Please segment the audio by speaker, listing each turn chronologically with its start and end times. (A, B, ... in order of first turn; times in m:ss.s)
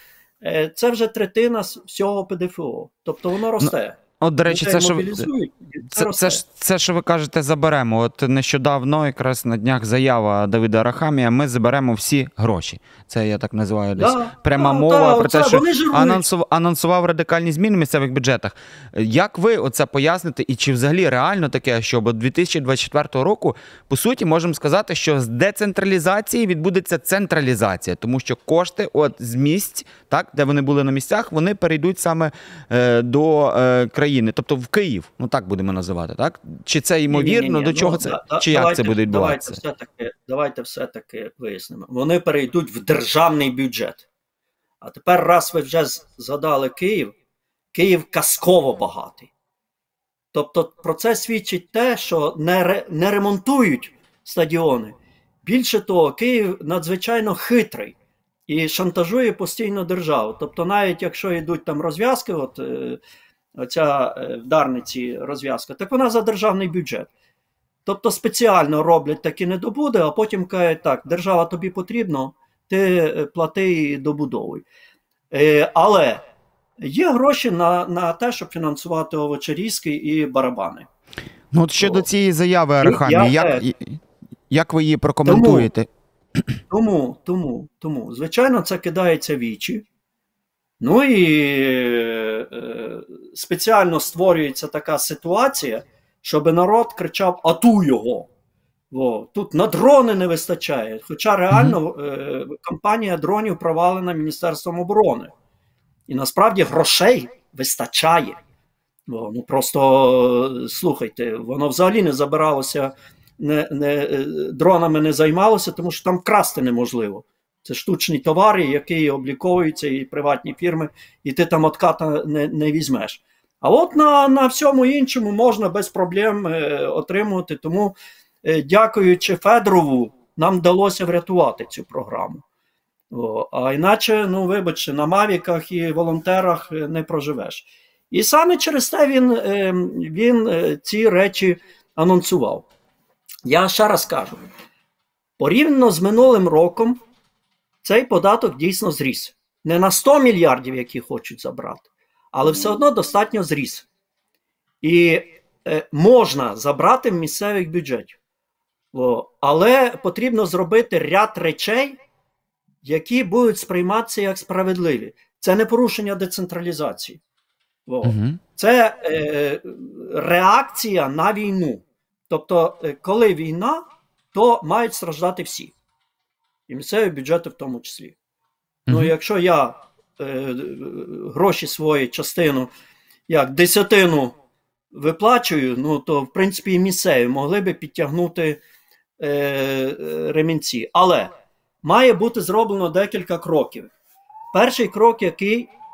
0:00.4-0:06.4 A
0:03.6-0:05.3 B
0:05.9-0:39.6 B
0:14.0-0:16.2 A
0:37.1-0:44.1 A
0:44.8-0:47.2 A
0:47.7-0:49.3 A
0:50.3-0:58.0 A
0:58.5-1:03.0 A
1:03.6-1:07.1 A
1:07.8-1:14.7 A
1:15.3-1:16.2 A
1:16.8-1:20.9 A
1:21.5-1:26.5 B
1:21.8-1:22.1 A
1:22.8-1:23.7 A
1:25.2-1:25.7 A
1:26.7-1:29.8 A
1:30.8-1:38.3 A
1:38.9-1:45.3 A
1:41.5-1:41.8 B
1:46.1-1:48.4 A
1:49.1-2:12.4 A
2:13.1-2:22.7 A
2:23.4-2:24.5 A
2:25.4-2:27.0 A
2:27.8-2:33.9 A
2:34.8-2:38.2 A
2:38.9-2:42.0 A
2:42.8-2:47.2 A
2:47.9-2:55.7 A
2:48.0-2:48.4 B
2:56.7-2:58.2 A
2:58.9-2:59.1 B
2:58.9-3:02.7 A
3:03.3-3:04.4 A
3:04.9-3:08.6 A
3:09.2-3:13.9 A
3:14.5-3:15.7 A